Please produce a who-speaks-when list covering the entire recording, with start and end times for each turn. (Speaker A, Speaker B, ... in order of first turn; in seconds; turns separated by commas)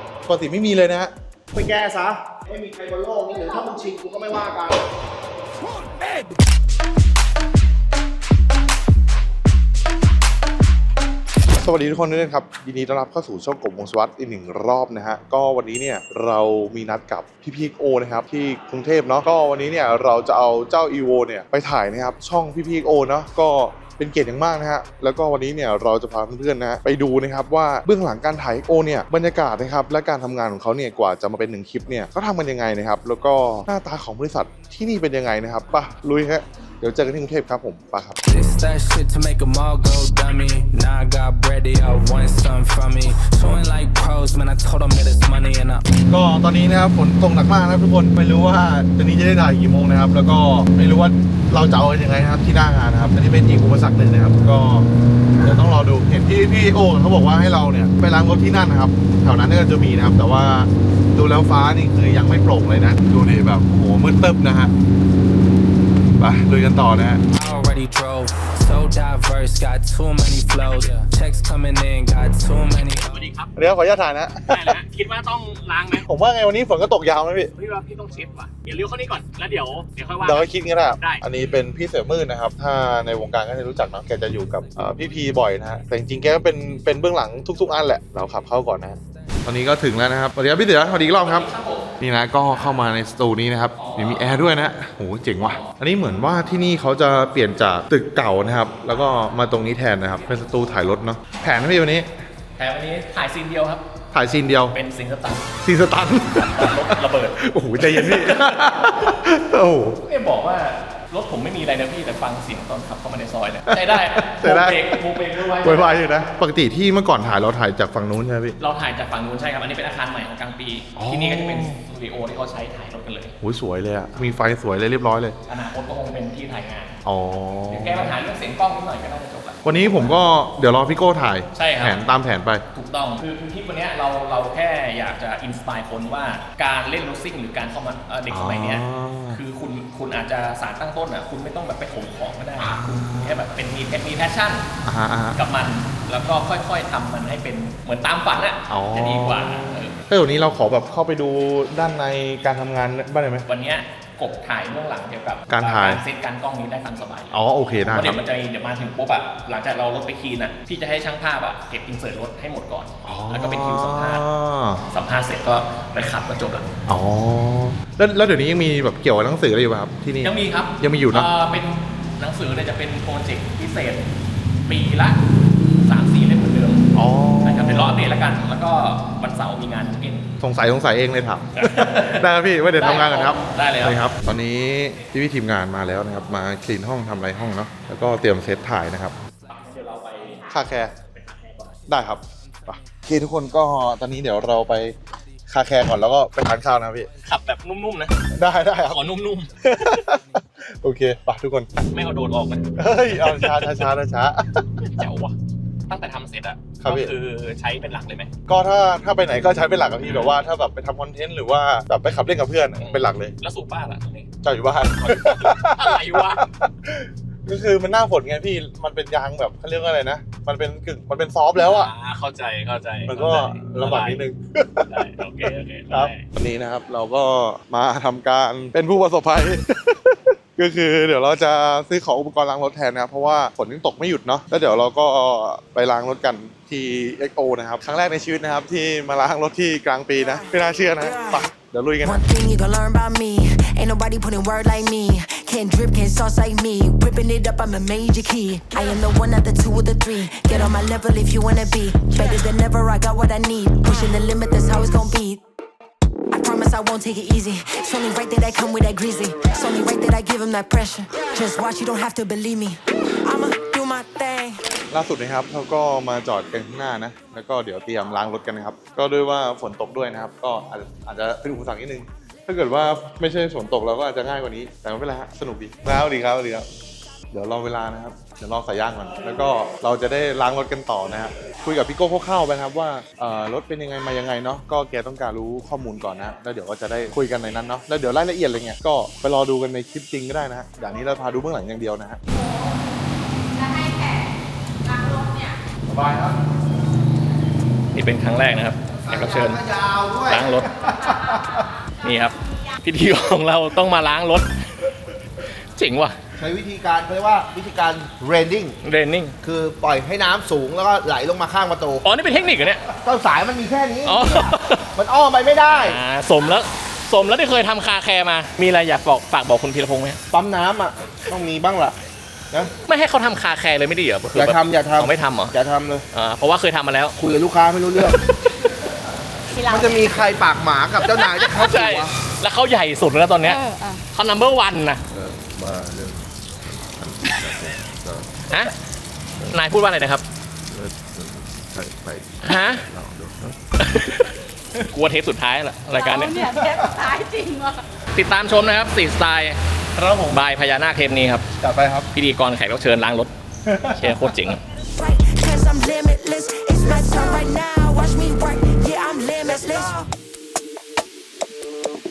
Speaker A: 0.3-1.1, Speaker B: 1.5-4.9, Speaker A: 11.6-38.2, Speaker C: 38.2-45.8, Speaker A: 46.1-54.9, Speaker A: 55.4-64.7, Speaker A: 66.2-67.2, Speaker C: 67.3-73.1, Speaker D: 70.6-70.9, Speaker D: 73.0-73.5, Speaker A: 73.5-74.8, Speaker D: 74.5-76.0, Speaker A: 76.0-77.5, Speaker D: 77.6-81.2, Speaker A: 80.2-91.5, Speaker D: 91.2-91.9, Speaker A: 92.0-102.2, Speaker D: 92.5-92.8, Speaker D: 93.8-94.4, Speaker D: 95.4-95.7, Speaker D: 102.6-103.8, Speaker A: 104.1-104.8, Speaker D: 104.7-105.5, Speaker A: 105.6-110.0, Speaker D: 106.3-109.1, Speaker D: 110.0-116.2, Speaker A: 113.7-115.0, Speaker A: 115.6-118.5, Speaker D: 118.6-123.3, Speaker A: 121.0-121.8, Speaker A: 123.4-125.3, Speaker D: 125.5-127.0, Speaker A: 127.0-128.1, Speaker D: 127.7-130.2, Speaker A: 129.6-132.6, Speaker D: 131.5-132.1, Speaker D: 132.7-144.7, Speaker A: 138.3-139.4, Speaker A: 142.6-143.4, Speaker A: 144.8-145.4, Speaker D: 145.3-149.9, Speaker A: 148.7-153.4, Speaker D: 153.5-164.2, Speaker A: 155.5-156.0, Speaker A: 157.3-158.2, Speaker A: 163.0-164.8, Speaker D: 164.9-166.7, Speaker A: 166.9-171.3, Speaker D: 170.2-174.0, Speaker D: 174.7-175.2, Speaker D: 175.7-176.9, Speaker A: 176.9-178.0, Speaker D: 177.4-180.3, Speaker A: 180.4-189.1, Speaker D: 181.5-182.2, Speaker D: 182.8-184.1, Speaker D: 189.5-191.8, Speaker A: 190.5-190.9, Speaker A: 191.9-195.0, Speaker A: 195.5-197.1, Speaker D: 197.2-198.2, Speaker A: 198.3-199.0, Speaker D: 198.9-200.0, Speaker A: 199.6-201.8, Speaker D: 201.9-203.9, Speaker A: 202.8-204.9, Speaker D: 204.8-205.3, Speaker D: 205.9-208.3, Speaker A: 206.8-207.1, Speaker A: 208.5-213.3, Speaker D: 212.8-214.3, Speaker A: 214.4-221.9, Speaker D: 215.0-216.5, Speaker D: 221.5-224.2, Speaker A: 223.1-224.9, Speaker D: 224.9-226.2, Speaker A: 225.9-242.2, Speaker E: 240.2-240.4, Speaker E: 241.0-241.4, Speaker E: 242.0-255.4, Speaker E: 256.3-264.6, Speaker A: 264.9-276.7, Speaker A: 277.3-292.2, Speaker F: 292.3-292.8, Speaker F: 293.4-294.3, Speaker F: 294.8-295.6, Speaker A: 295.9-296.3, Speaker D: 297.9-299.6, Speaker B: 299.1-300.6, Speaker D: 300.3-300.9, Speaker A: 300.8-301.6, Speaker F: 301.0-302.7, Speaker D: 302.0-304.5, Speaker D: 305.7-306.1, Speaker B: 306.4-308.8, Speaker D: 308.8-309.3, Speaker B: 309.4-312.1, Speaker D: 312.0-312.8, Speaker B: 313.0-316.0, Speaker D: 314.0-314.8, Speaker D: 315.7-320.2, Speaker B: 320.3-322.0, Speaker D: 322.9-325.5, Speaker B: 324.3-326.0, Speaker D: 326.1-327.1, Speaker B: 327.2-328.2, Speaker D: 328.0-328.7, Speaker F: 329.5-330.0, Speaker B: 329.6-332.1, Speaker D: 331.3-335.0, Speaker F: 333.4-334.0, Speaker D: 338.5-338.7, Speaker D: 339.4-340.2, Speaker D: 342.4-342.9, Speaker D: 343.8-344.3, Speaker D: 344.9-346.5, Speaker F: 345.9-347.8, Speaker A: 346.4-346.9, Speaker D: 348.1-351.4, Speaker A: 351.6-352.1, Speaker D: 352.1-353.3, Speaker A: 353.6-354.3, Speaker D: 353.9-354.6, Speaker E: 354.9-360.1